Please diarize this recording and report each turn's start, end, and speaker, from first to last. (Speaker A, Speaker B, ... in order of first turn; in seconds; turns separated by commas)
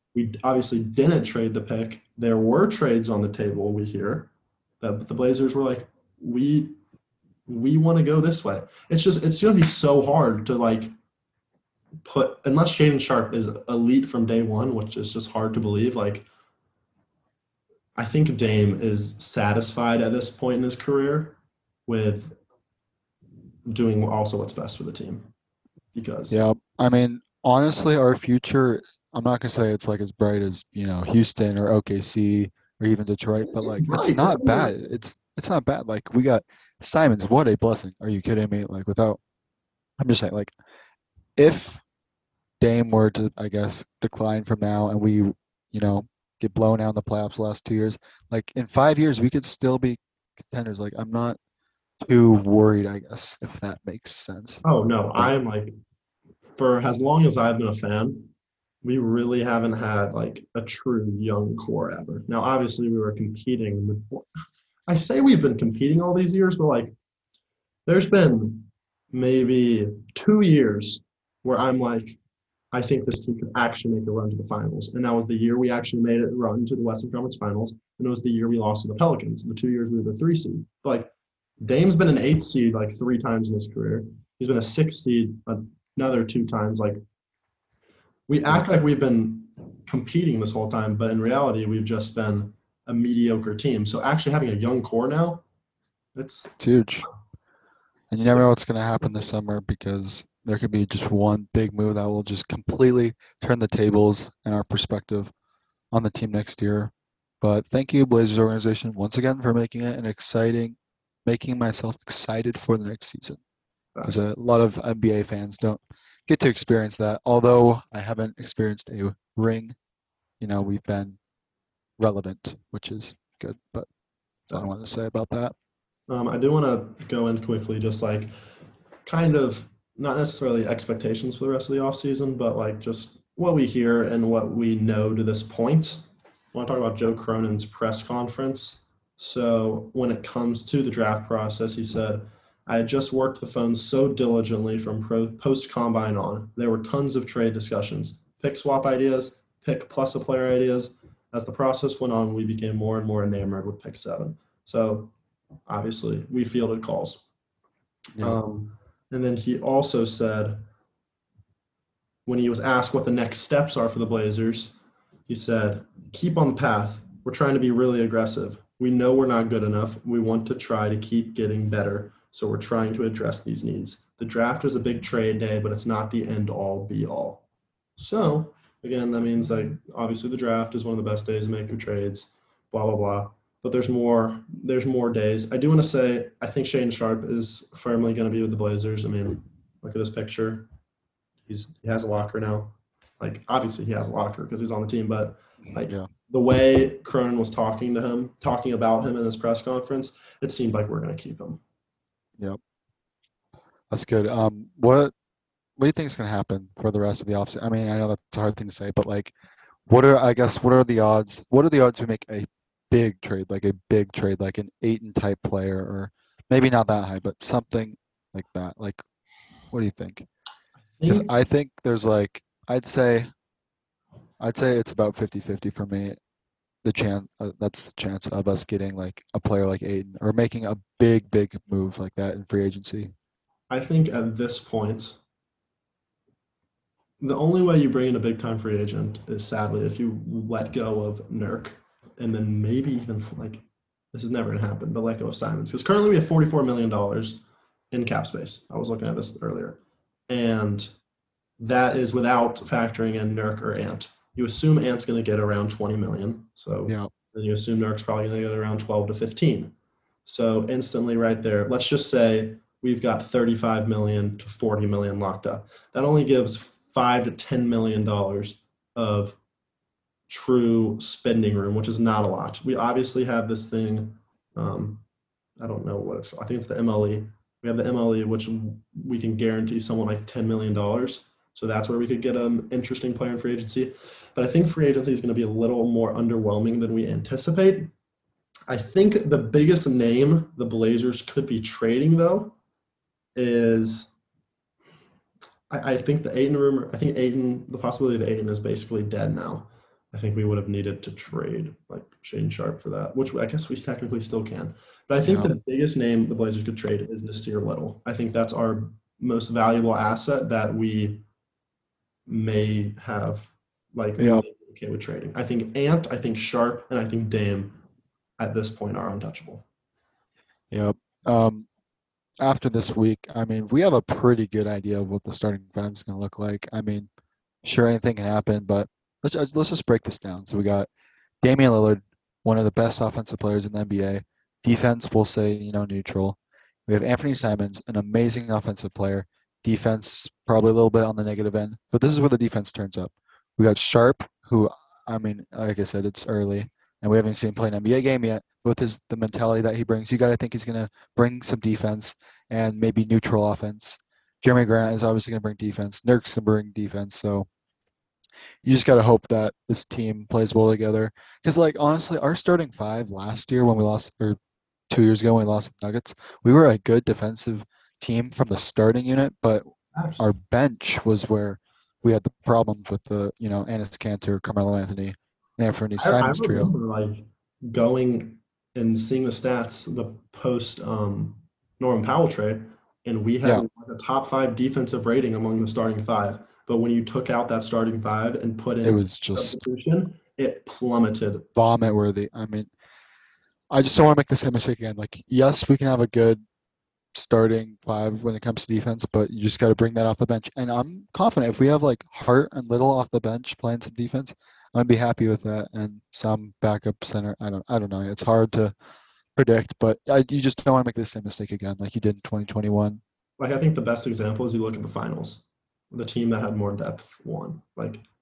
Speaker A: 0.1-6.8, Speaker A: 7.5-10.9, Speaker A: 12.0-16.3, Speaker A: 18.0-22.4, Speaker A: 23.7-25.3, Speaker A: 25.9-26.4, Speaker B: 26.3-39.2, Speaker A: 33.5-35.0, Speaker B: 40.0-40.5, Speaker B: 41.4-41.8, Speaker B: 42.6-51.4, Speaker B: 52.0-54.6, Speaker A: 54.6-55.7, Speaker A: 56.6-58.3, Speaker A: 58.8-64.3, Speaker A: 64.9-66.9, Speaker A: 67.9-72.2, Speaker A: 72.7-87.0, Speaker A: 88.3-95.4, Speaker A: 96.2-96.6, Speaker B: 96.6-97.1, Speaker B: 98.1-105.3, Speaker A: 98.2-98.5, Speaker B: 105.9-113.4, Speaker A: 114.0-114.2, Speaker B: 114.0-119.8, Speaker B: 120.4-121.2, Speaker B: 122.0-123.9, Speaker B: 124.5-125.5, Speaker A: 126.1-128.3, Speaker A: 129.1-155.1, Speaker A: 155.7-157.2, Speaker A: 158.2-160.6, Speaker A: 162.3-164.8, Speaker A: 165.3-177.4, Speaker A: 178.0-190.7, Speaker A: 191.5-201.6, Speaker B: 195.7-196.1, Speaker B: 203.9-205.1, Speaker B: 205.8-209.3, Speaker B: 209.9-219.0, Speaker B: 219.7-220.3, Speaker A: 221.0-221.3, Speaker B: 221.1-223.3, Speaker B: 224.4-226.2, Speaker B: 226.8-233.1, Speaker A: 233.7-235.2, Speaker A: 237.2-247.4, Speaker A: 247.9-250.9, Speaker A: 251.6-259.7, Speaker A: 260.2-269.4, Speaker A: 270.3-275.1, Speaker A: 275.6-287.9, Speaker A: 288.7-292.6, Speaker A: 293.4-294.1, Speaker A: 295.7-311.2, Speaker B: 305.2-305.5, Speaker A: 312.3-317.8, Speaker B: 314.2-314.4, Speaker A: 318.4-319.6, Speaker B: 320.7-321.7, Speaker B: 322.4-327.1, Speaker B: 327.6-330.9, Speaker B: 331.4-357.5, Speaker B: 358.6-364.4, Speaker B: 364.9-369.6, Speaker A: 369.9-370.3, Speaker B: 370.2-376.7, Speaker A: 376.0-391.8, Speaker B: 388.8-389.6, Speaker B: 391.6-392.7, Speaker B: 393.7-396.4, Speaker B: 397.1-408.7, Speaker B: 409.4-413.0, Speaker A: 413.4-418.0